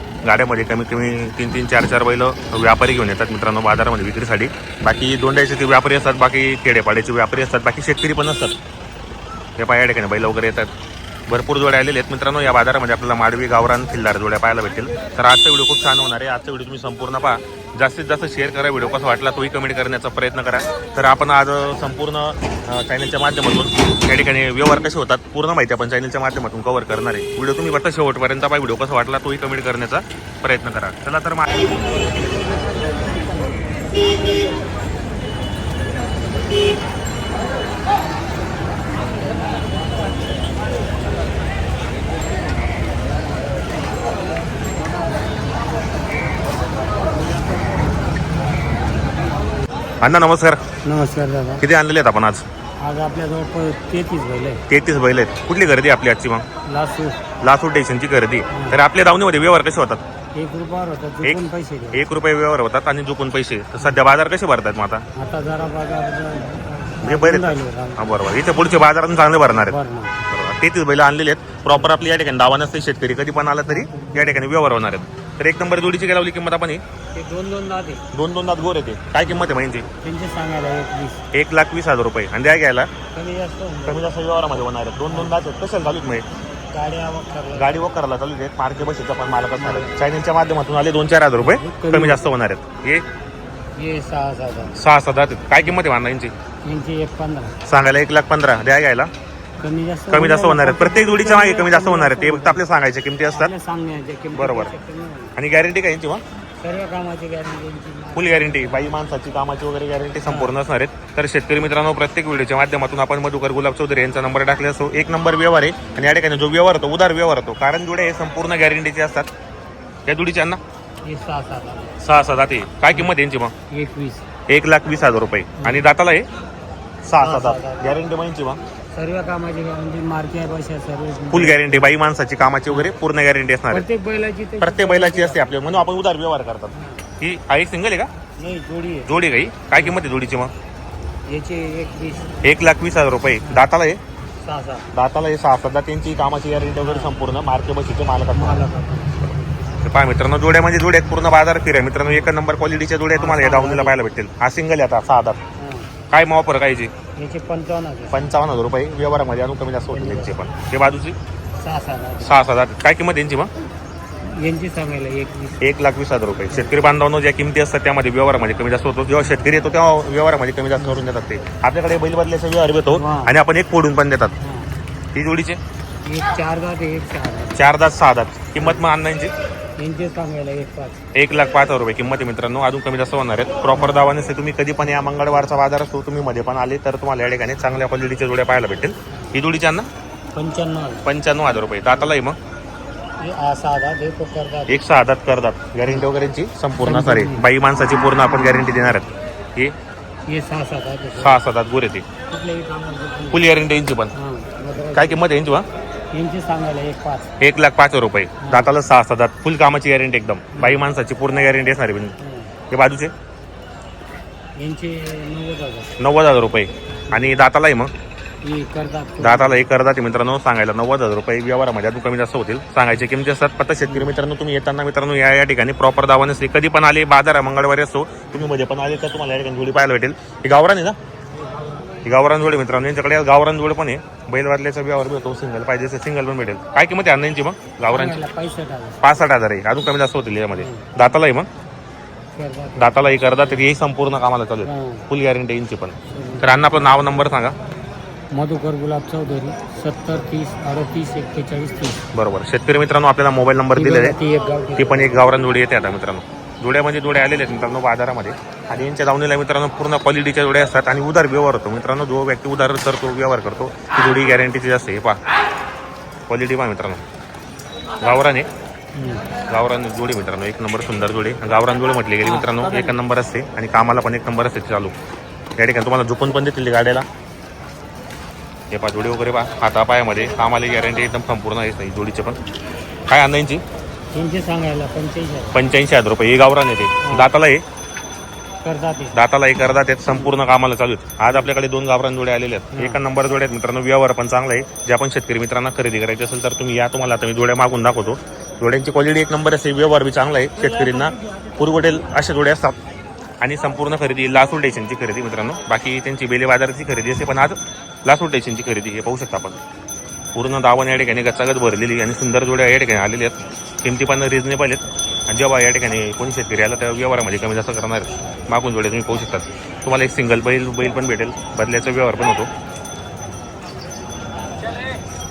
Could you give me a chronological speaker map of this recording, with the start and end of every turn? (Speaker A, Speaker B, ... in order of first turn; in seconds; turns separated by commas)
Speaker A: 0.2-8.6, Speaker A: 9.6-10.7, Speaker A: 11.3-31.6, Speaker A: 50.0-50.6, Speaker B: 50.9-51.6, Speaker A: 51.6-52.4, Speaker B: 52.8-54.6, Speaker A: 54.7-56.5, Speaker B: 56.7-57.2, Speaker A: 57.4-60.0, Speaker B: 58.5-58.8, Speaker B: 60.4-62.0, Speaker A: 61.2-65.0, Speaker B: 65.2-68.2, Speaker A: 67.0-69.8, Speaker B: 69.3-70.2, Speaker A: 70.3-76.8, Speaker B: 73.7-74.4, Speaker B: 77.2-78.0, Speaker A: 78.1-79.9, Speaker B: 80.0-81.2, Speaker A: 81.3-82.9, Speaker B: 83.1-84.3, Speaker A: 83.9-86.3, Speaker B: 85.1-85.4, Speaker B: 86.7-87.9, Speaker A: 87.5-93.0, Speaker B: 89.6-89.9, Speaker B: 91.4-92.3, Speaker B: 93.8-94.8, Speaker A: 94.8-96.3, Speaker B: 96.7-97.5, Speaker A: 97.7-99.1, Speaker B: 99.6-102.6, Speaker A: 100.1-103.5, Speaker B: 103.3-105.4, Speaker A: 104.4-104.7, Speaker A: 105.4-106.2, Speaker B: 106.6-108.9, Speaker A: 108.2-119.3, Speaker B: 110.3-110.6, Speaker A: 120.1-120.6, Speaker B: 121.0-122.0, Speaker A: 122.0-123.5, Speaker B: 123.7-124.2, Speaker A: 124.5-126.3, Speaker B: 125.6-125.9, Speaker A: 127.0-128.6, Speaker B: 127.2-127.9, Speaker B: 128.9-132.0, Speaker A: 131.3-133.9, Speaker B: 133.7-135.8, Speaker A: 134.6-138.1, Speaker B: 136.7-137.1, Speaker B: 138.4-139.1, Speaker A: 139.1-140.5, Speaker B: 141.3-142.6, Speaker A: 142.4-144.0, Speaker B: 143.4-143.7, Speaker B: 144.4-144.9, Speaker A: 144.9-148.7, Speaker B: 146.8-147.1, Speaker B: 148.3-149.4, Speaker A: 149.8-155.4, Speaker B: 153.1-154.0, Speaker B: 155.6-155.9, Speaker A: 156.1-156.9, Speaker B: 157.2-158.3, Speaker A: 158.1-161.2, Speaker B: 159.9-160.3, Speaker B: 161.6-162.4, Speaker A: 162.2-163.5, Speaker B: 164.2-165.6, Speaker A: 165.6-174.3, Speaker B: 166.5-166.8, Speaker B: 170.8-171.0, Speaker B: 172.9-173.4, Speaker B: 174.4-174.7, Speaker A: 175.1-175.6, Speaker B: 176.1-177.6, Speaker A: 177.6-179.3, Speaker B: 178.6-178.8, Speaker B: 179.8-181.0, Speaker A: 181.2-189.9, Speaker B: 183.8-184.0, Speaker B: 190.3-191.1, Speaker A: 191.1-192.4, Speaker B: 193.2-194.8, Speaker A: 194.7-199.7, Speaker B: 196.8-197.5, Speaker B: 200.3-201.4, Speaker A: 201.2-202.1, Speaker B: 202.3-203.4, Speaker A: 203.3-204.1, Speaker B: 204.2-205.2, Speaker A: 204.9-205.7, Speaker B: 206.1-207.3, Speaker A: 207.4-212.2, Speaker B: 208.4-208.7, Speaker B: 210.6-210.9, Speaker B: 212.2-212.5, Speaker A: 212.7-213.1, Speaker B: 214.6-216.0, Speaker A: 216.0-217.9, Speaker B: 217.1-217.4, Speaker B: 218.4-219.7, Speaker A: 219.2-231.0, Speaker B: 223.9-224.1, Speaker A: 232.0-238.2, Speaker B: 237.9-239.0, Speaker A: 239.0-241.5, Speaker B: 240.5-240.9, Speaker B: 242.4-243.6, Speaker A: 242.8-247.5, Speaker B: 244.6-245.1, Speaker B: 246.1-246.6, Speaker B: 248.3-252.0, Speaker A: 252.1-254.2, Speaker B: 253.7-255.4, Speaker A: 254.8-265.2, Speaker A: 266.3-267.0, Speaker A: 268.0-268.5, Speaker B: 269.0-269.3, Speaker A: 269.5-274.9, Speaker A: 275.6-277.1, Speaker A: 278.7-282.4, Speaker A: 283.1-283.6, Speaker B: 284.1-285.6, Speaker A: 285.5-287.6, Speaker B: 288.6-289.1, Speaker A: 289.1-302.8, Speaker B: 292.7-293.0, Speaker A: 303.4-309.6, Speaker A: 310.3-322.5